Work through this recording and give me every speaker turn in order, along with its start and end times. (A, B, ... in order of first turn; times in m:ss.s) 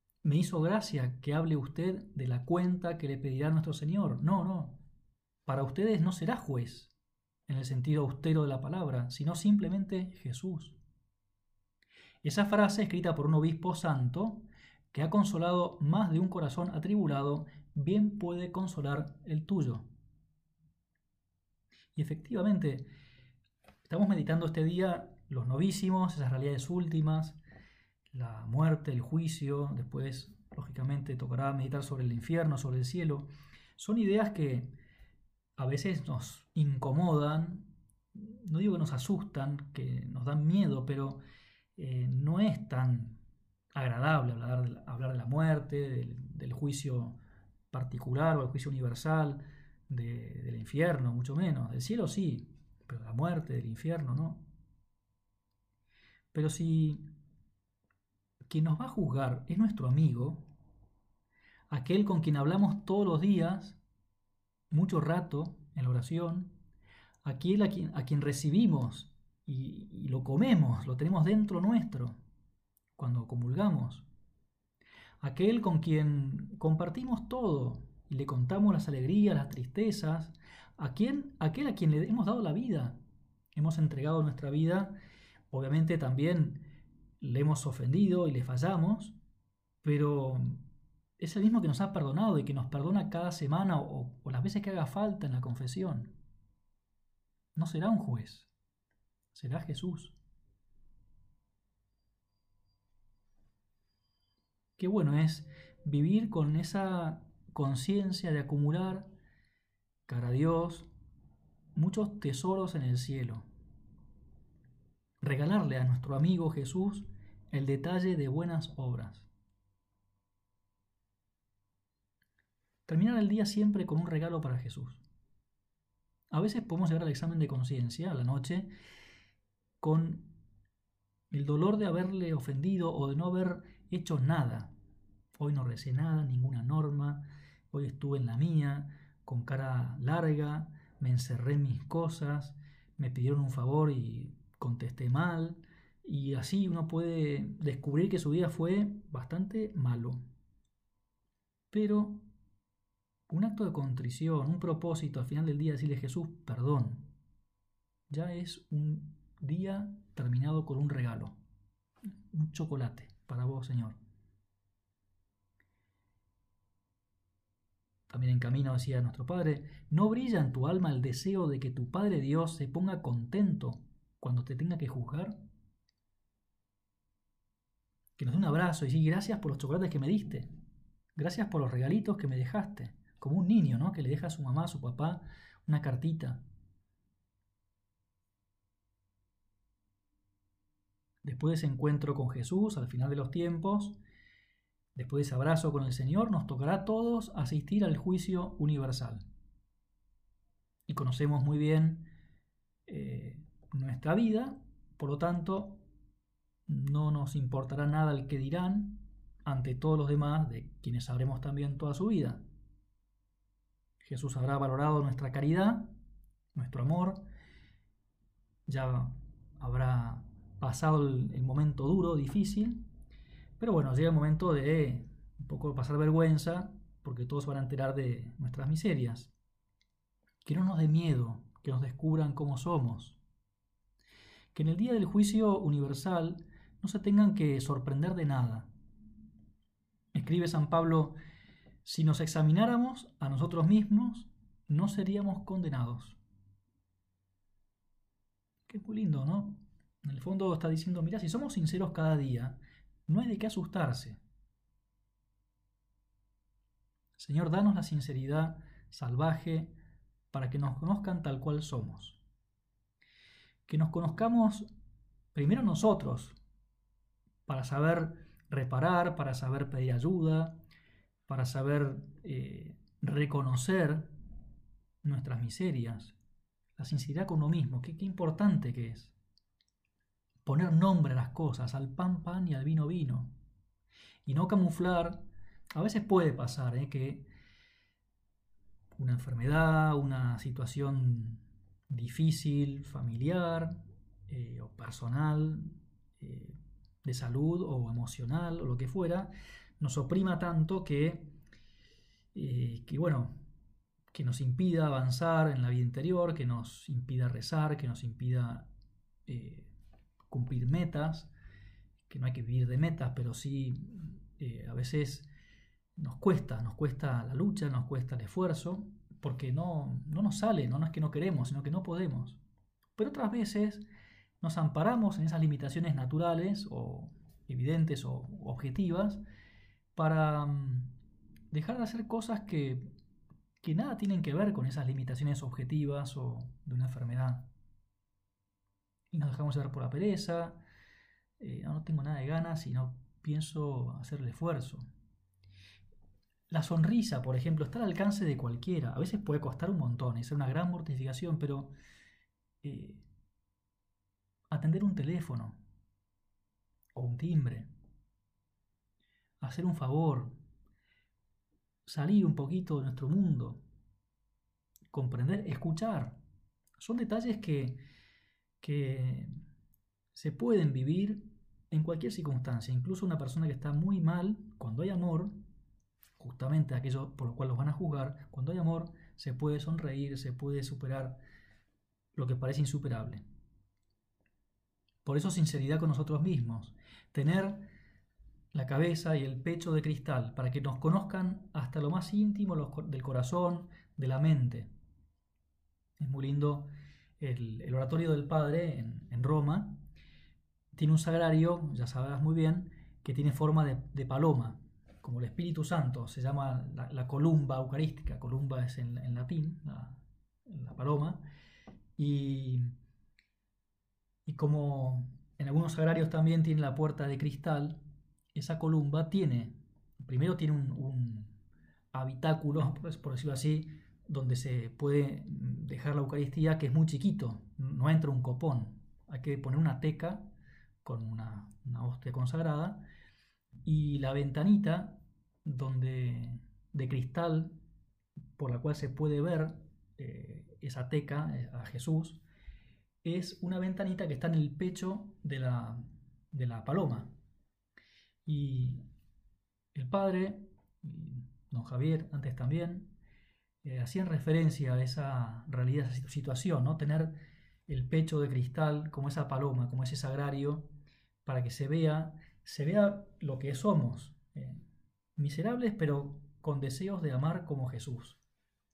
0:00.2-0:04.8 A
0:05.4-0:06.9 A
0:07.5-0:10.8 A
0:12.2-0:19.9 A
0:21.9-0:22.9 A
0:23.8-0:27.4 A
0:28.1-0:34.7 A
0:35.6-0:41.2 A
0:41.8-0:43.2 A
0:43.7-0:47.2 A
0:47.7-0:54.5 A
0:56.3-0:57.0 A
0:58.5-1:00.4 A
1:01.7-1:03.8 A
1:04.7-1:06.5 A
1:07.2-1:12.2 A
1:13.0-1:14.0 A
1:15.2-1:23.0 A
1:23.6-1:24.9 A
1:25.5-1:26.6 A
1:27.2-1:29.2 A
1:29.8-1:30.6 A
1:31.2-1:36.1 A
1:37.5-1:38.5 A
1:39.3-1:40.2 A
1:44.8-1:49.0 A
1:50.1-1:50.9 A
1:51.7-1:53.4 A
1:55.2-1:59.3 A
2:02.9-2:05.0 A
2:06.3-2:08.7 A
2:09.8-2:10.3 A
2:11.3-2:14.7 A
2:15.4-2:30.2 A
2:31.7-2:32.2 A
2:33.3-2:37.1 A
2:38.1-2:41.4 A
2:42.3-2:44.0 A
2:48.1-2:55.3 A
2:58.2-3:00.5 A
3:01.1-3:06.4 A
3:11.2-3:14.0 A
3:14.9-3:19.2 A
3:20.9-3:22.1 A
3:22.9-3:25.8 A
3:26.7-3:32.4 A
3:34.0-3:35.9 A
3:36.5-3:37.2 A
3:38.7-3:42.8 A
3:43.6-3:49.3 A
3:50.4-3:53.2 A
3:54.5-3:58.7 A
4:00.1-4:01.1 A
4:01.8-4:06.2 A
4:08.7-4:14.2 A
4:17.2-4:19.7 A
4:20.3-4:22.2 A
4:23.7-4:24.7 A
4:25.3-4:26.4 A
4:27.5-4:30.6 A
4:31.3-4:34.1 A
4:35.0-4:36.1 A
4:36.8-4:39.1 A
4:40.4-4:43.3 A
4:44.2-4:45.2 A
4:45.7-4:47.3 A
4:49.0-5:01.3 A
5:02.3-5:03.4 A
5:04.1-5:08.7 A
5:09.3-5:09.7 A
5:10.3-5:11.3 A
5:12.1-5:15.3 A
5:16.0-5:22.4 A
5:23.0-5:23.8 A
5:24.4-5:29.2 A
5:29.9-5:30.9 A
5:31.5-5:32.9 A
5:33.6-5:37.5 A
5:39.1-5:40.6 A
5:41.4-5:44.8 A
5:46.5-5:51.7 A
5:52.6-5:53.0 A
5:54.5-5:55.6 A
5:56.9-5:57.7 A
5:59.4-6:00.4 A
6:01.8-6:03.6 A
6:04.9-6:06.2 A
6:06.8-6:07.8 A
6:08.6-6:09.3 A
6:10.1-6:15.3 A
6:16.2-6:21.2 A
6:22.1-6:23.2 A
6:25.0-6:27.7 A
6:28.5-6:34.7 A
6:36.0-6:39.8 A
6:40.7-6:51.2 A
6:52.0-6:52.7 A
6:54.2-6:57.8 A
6:58.3-7:01.4 A
7:01.9-7:10.2 A
7:10.8-7:12.8 A
7:13.6-7:17.5 A
7:18.4-7:22.2 A
7:23.0-7:27.1 A
7:28.2-7:28.8 A
7:29.7-7:32.9 A
7:33.6-7:37.1 A
7:37.7-7:40.7 A
7:41.2-7:44.6 A
7:45.2-7:48.2 A